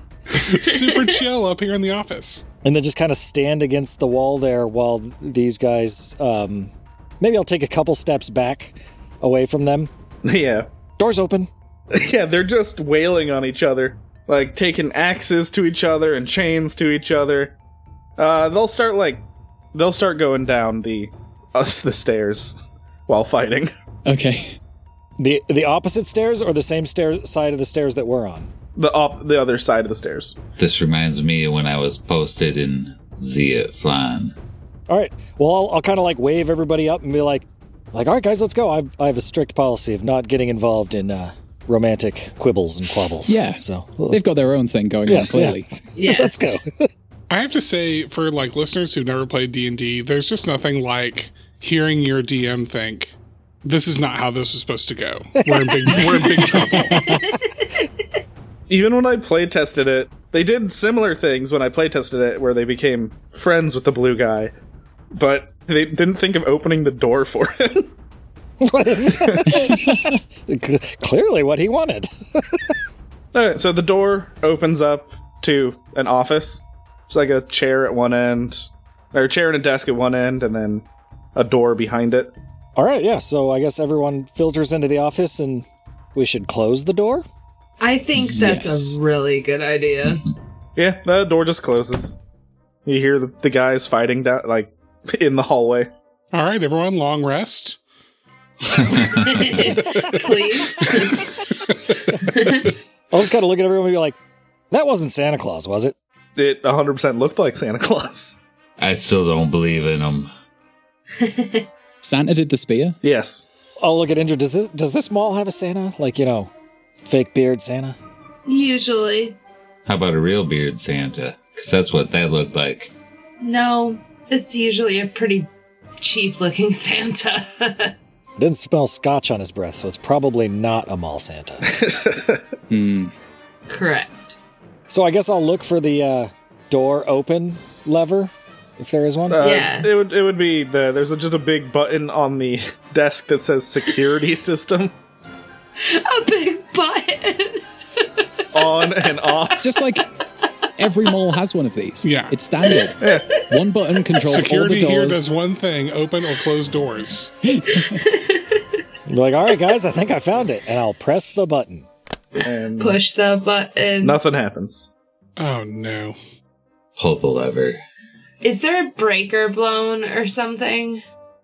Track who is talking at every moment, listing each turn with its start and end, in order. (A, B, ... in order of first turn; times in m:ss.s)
0:00.3-0:02.4 A
0:00.4-0:01.1 B
0:02.6-0:09.9 C
0:10.2-0:10.7 D
0:11.0-0:11.5 C
0:11.9-0:17.5 D
0:18.2-0:23.7 D
0:24.0-0:24.6 E
0:25.2-0:28.5 C
0:28.8-0:30.4 D
0:30.6-0:34.3 F
0:34.9-0:44.2 C
0:43.3-0:45.6 E
0:45.1-0:46.9 C
0:45.9-0:46.5 B
0:47.3-0:57.0 A
0:55.4-0:57.3 C
0:57.0-0:57.4 B
0:58.7-1:04.5 D
1:05.1-1:07.9 D
1:08.6-1:12.6 C
1:09.0-1:09.9 D
1:13.3-1:22.3 D
1:22.8-1:27.2 C
1:27.8-1:30.2 B
1:28.2-1:29.0 E
1:30.8-1:32.2 D
1:32.8-1:35.9 D
1:36.3-1:37.8 A
1:38.7-1:39.6 F
1:38.9-1:41.3 B
1:42.3-1:42.7 B
1:43.1-1:44.2 C
1:44.7-1:45.9 C
1:46.4-1:48.4 D
1:48.8-1:50.3 F
1:51.2-1:51.6 B
1:52.0-1:53.0 E
1:53.0-1:53.4 D
1:53.8-1:56.5 C
1:57.0-1:58.0 C
1:58.4-1:59.4 B
1:59.8-2:02.9 F
2:03.4-2:07.9 B
2:08.4-2:11.6 C
2:11.7-2:12.4 D
2:12.7-2:13.1 E
2:13.7-2:14.3 B
2:14.9-2:19.4 C
2:19.3-2:24.9 D
2:19.4-2:19.9 B
2:25.8-2:28.2 B
2:28.5-2:29.7 D
2:29.6-2:30.0 E
2:30.8-2:35.3 E
2:32.0-2:32.4 A
2:32.7-2:33.4 B
2:33.0-2:33.3 D
2:34.2-2:37.3 A
2:37.6-2:38.0 E
2:37.7-2:38.8 B
2:39.1-2:41.9 C
2:42.4-2:44.2 B
2:42.4-2:43.0 D
2:44.0-2:44.9 D
2:45.4-2:46.2 A
2:47.0-2:47.8 F
2:48.4-2:51.0 B